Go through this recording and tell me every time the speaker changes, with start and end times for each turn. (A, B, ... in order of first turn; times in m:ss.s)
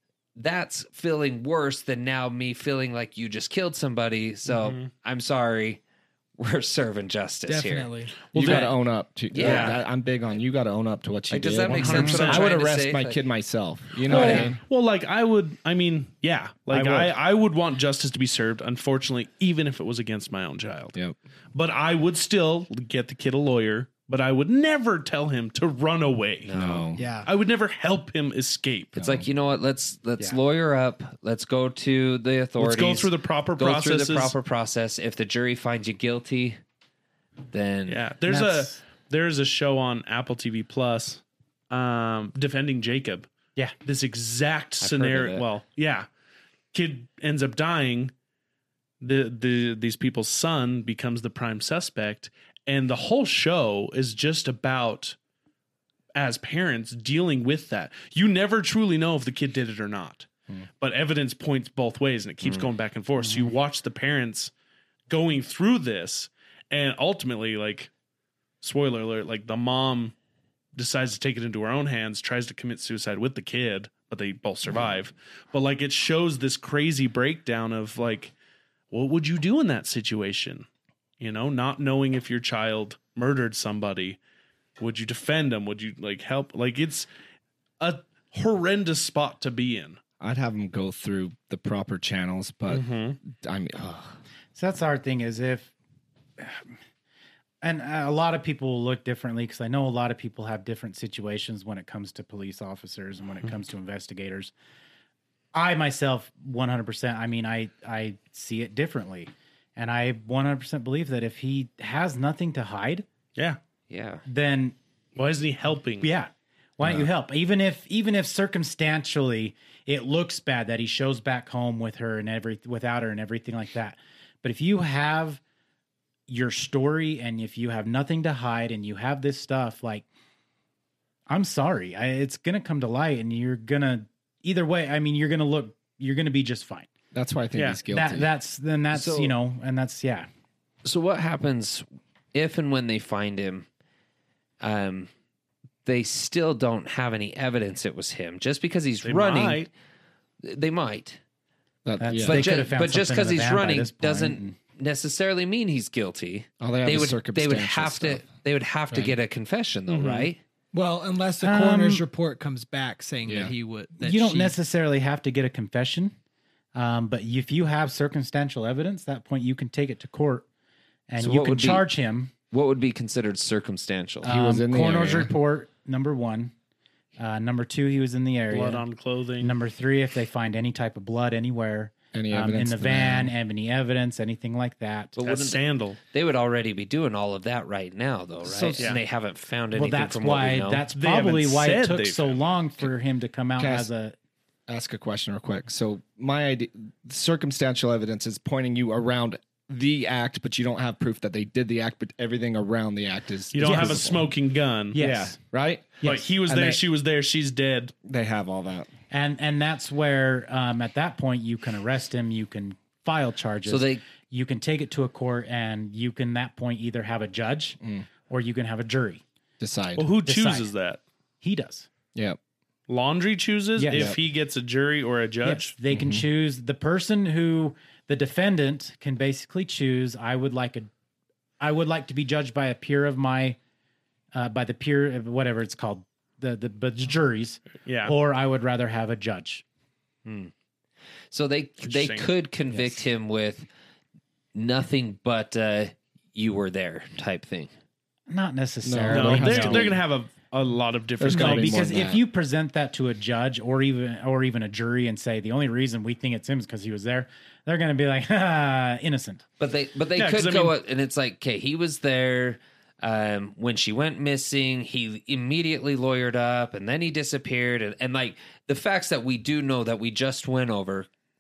0:00.4-0:05.8 A
0:04.5-0:04.9 B
0:06.4-0:08.7 A
0:07.5-0:08.3 C
0:08.3-0:08.7 B
0:08.3-0:14.6 D
0:09.3-0:09.8 A
0:09.4-0:09.8 B
0:11.3-0:13.2 A
0:11.7-0:12.6 B
0:12.0-0:12.2 E
0:14.1-0:14.6 A
0:14.1-0:21.0 B
0:14.1-0:14.6 C
0:16.7-0:17.1 E
0:21.5-0:26.5 B
0:26.4-0:26.9 A
0:26.5-0:27.1 D
0:27.0-0:27.3 C
0:27.2-0:29.0 B
0:29.0-0:29.3 D
0:29.0-0:36.6 A
0:32.6-0:34.3 B
0:37.5-0:38.0 A
0:37.9-0:43.3 B
0:38.3-0:38.8 E
0:43.8-0:46.1 B
0:44.8-0:45.5 A
0:46.7-0:48.1 B
0:49.0-0:55.2 B
0:56.2-1:00.3 B
1:00.8-1:04.5 B
1:03.2-1:03.5 E
1:05.1-1:07.9 B
1:08.6-1:10.1 B
1:10.8-1:18.3 B
1:18.9-1:20.7 B
1:21.2-1:24.2 B
1:24.8-1:27.1 B
1:27.8-1:30.0 B
1:30.2-1:34.2 D
1:32.7-1:33.2 B
1:34.6-1:35.7 E
1:36.4-1:36.6 E
1:37.6-1:44.5 E
1:45.5-1:53.1 E
1:53.9-1:54.2 A
1:54.3-1:54.8 E
1:55.2-1:56.1 B
1:56.0-2:05.4 E
2:06.3-2:10.1 E
2:11.3-2:16.9 E
2:17.1-2:18.3 D
2:17.9-2:20.3 E
2:19.0-2:19.3 A
2:20.8-2:23.7 A
2:24.6-2:25.1 A
2:25.8-2:29.7 A
2:29.0-2:29.7 B
2:30.4-2:31.2 A
2:31.8-2:32.6 D
2:32.0-2:34.6 E
2:32.2-2:40.4 A
2:36.6-2:38.3 D
2:40.7-2:44.5 C
2:41.4-2:42.0 E
2:43.2-2:43.5 D
2:44.0-2:46.2 E
2:46.8-2:50.4 E
2:51.1-2:52.3 E
2:51.2-2:51.9 A
2:52.5-2:54.3 A
2:54.2-2:55.3 D
2:54.2-2:56.5 E
2:57.2-2:58.8 E
2:58.5-2:59.5 B
2:59.4-3:05.2 E
3:02.1-3:03.3 D
3:05.2-3:10.9 A
3:05.2-3:06.0 B
3:08.4-3:09.0 E
3:09.7-3:14.2 E
3:11.0-3:12.4 B
3:13.6-3:13.9 D
3:14.7-3:24.2 D
3:23.5-3:25.0 B
3:23.6-3:24.2 E
3:24.9-3:25.4 E
3:25.0-3:26.8 D
3:26.0-3:27.9 B
3:28.0-3:28.9 D
3:29.1-3:39.2 E
3:33.7-3:34.0 A
3:37.8-3:38.1 D
3:39.6-3:40.1 D
3:40.0-3:41.0 B
3:40.2-3:40.7 E
3:41.4-3:41.9 E
3:42.1-3:42.4 D
3:42.9-3:45.8 B
3:43.8-3:44.2 E
3:43.9-3:44.2 D
3:45.4-3:50.9 E
3:45.9-3:46.2 D
3:51.6-3:53.6 E
3:54.3-3:59.6 E
3:57.8-3:58.2 B
4:00.2-4:00.5 A
4:01.3-4:03.7 A
4:01.8-4:02.3 B
4:04.6-4:07.7 A
4:08.3-4:09.9 E
4:08.8-4:10.0 D
4:09.1-4:11.9 B
4:11.2-4:12.2 D
4:11.3-4:19.4 E
4:19.6-4:31.1 A
4:20.2-4:20.8 B